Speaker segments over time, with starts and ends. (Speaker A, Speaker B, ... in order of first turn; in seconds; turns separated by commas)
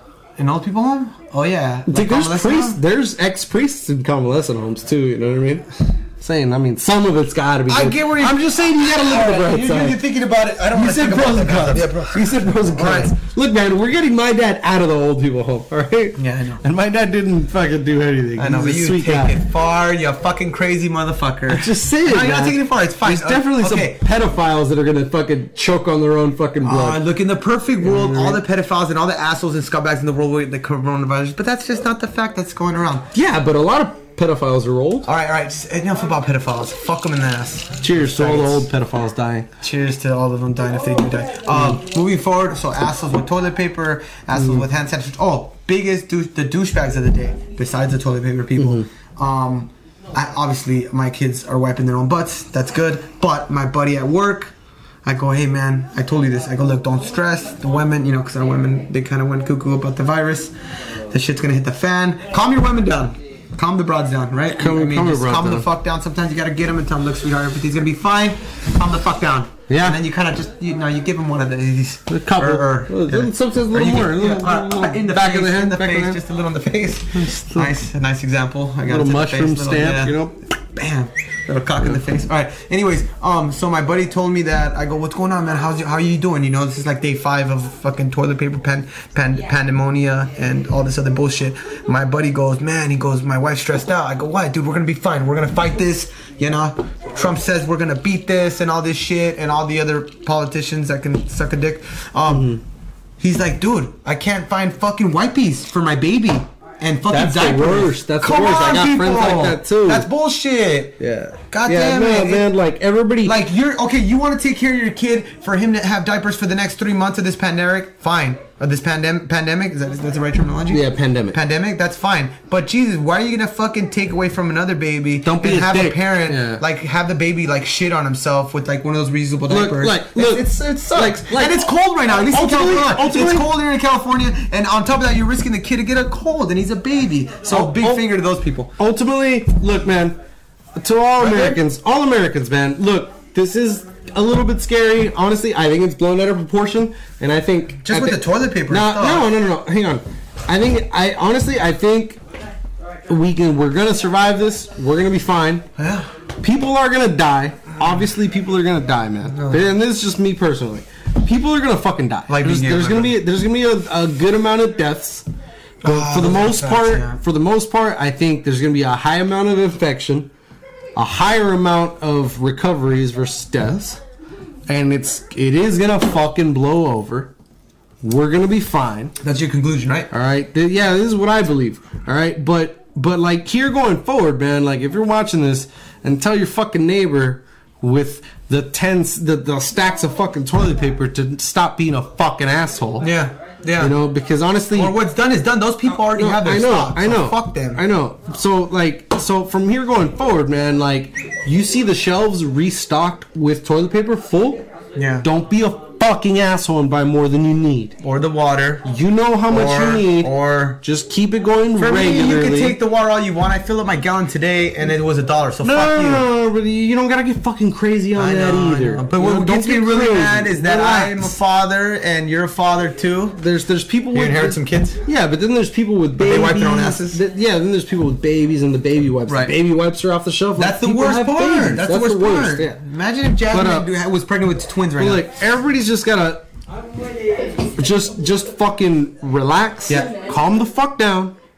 Speaker A: 0.4-2.8, Speaker B: 1.9-10.0, Speaker A: 7.7-13.1, Speaker B: 10.7-19.4, Speaker A: 16.2-16.6, Speaker A: 18.4-24.0, Speaker B: 21.5-27.0, Speaker A: 26.6-33.1, Speaker B: 27.8-28.4, Speaker B: 33.1-35.1, Speaker A: 35.0-38.7, Speaker B: 37.8-39.5, Speaker A: 39.6-54.5, Speaker B: 44.4-44.6, Speaker B: 48.6-48.9, Speaker A: 55.0-60.5, Speaker A: 61.1-102.6, Speaker B: 64.5-65.7, Speaker B: 69.7-70.0, Speaker B: 72.1-76.2, Speaker B: 77.1-77.8, Speaker B: 78.9-80.3, Speaker B: 102.3-102.6, Speaker A: 103.2-111.0, Speaker B: 107.1-110.1, Speaker B: 111.0-113.4, Speaker A: 111.5-112.5, Speaker A: 113.2-138.7, Speaker B: 120.7-121.4, Speaker B: 125.2-126.6, Speaker B: 129.5-133.5, Speaker B: 137.5-138.1, Speaker B: 138.8-140.2, Speaker B: 140.8-152.2, Speaker A: 141.2-141.6, Speaker A: 147.8-149.3, Speaker B: 153.1-155.7, Speaker A: 155.8-156.1, Speaker B: 156.4-165.3, Speaker A: 159.3-159.7, Speaker A: 162.3-163.2, Speaker B: 165.8-170.3, Speaker A: 165.8-167.2, Speaker B: 170.9-174.0, Speaker B: 174.7-177.3, Speaker B: 178.0-179.2, Speaker A: 179.2-180.1, Speaker B: 180.1-193.1, Speaker A: 193.0-194.0, Speaker B: 193.8-195.0, Speaker A: 194.7-197.8, Speaker B: 196.2-204.6, Speaker A: 204.9-205.3, Speaker B: 205.2-207.9, Speaker A: 208.0-208.9, Speaker B: 208.8-212.8, Speaker A: 209.5-210.8, Speaker A: 211.8-216.3, Speaker B: 215.6-221.3, Speaker A: 218.1-223.4, Speaker B: 223.4-232.8, Speaker A: 224.1-225.0, Speaker A: 226.2-227.2, Speaker A: 229.3-229.6, Speaker A: 230.6-235.3, Speaker B: 233.5-233.9, Speaker B: 235.0-236.4, Speaker B: 237.8-241.3, Speaker A: 239.9-240.1